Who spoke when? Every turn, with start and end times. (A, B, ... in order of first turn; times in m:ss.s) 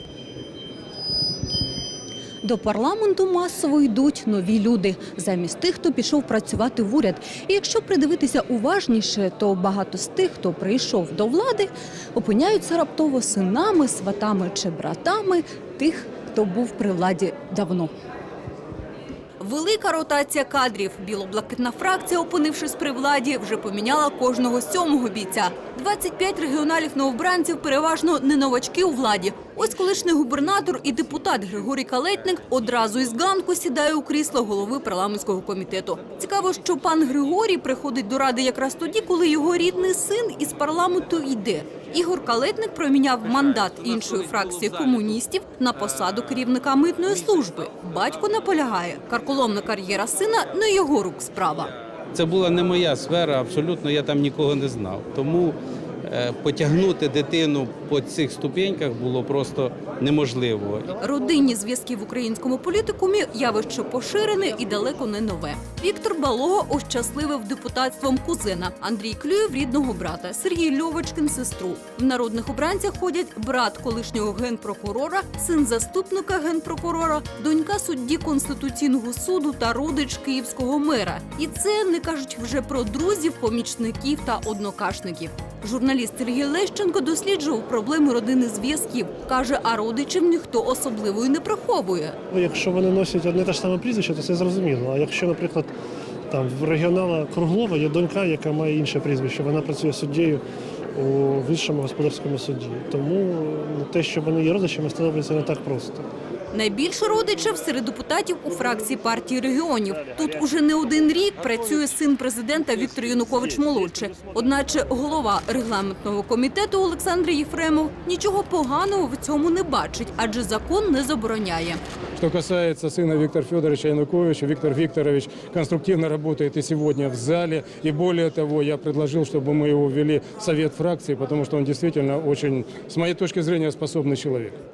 0:02.4-0:17.9 A
0:19.4-0:51.7 A
0:43.3-0:44.7 B
0:52.1-1:00.9 B
1:01.0-1:32.2 A
1:32.3-1:35.7 C
1:36.3-1:40.4 C
1:40.9-1:46.1 C
1:46.5-2:01.8 A
2:02.2-2:14.5 D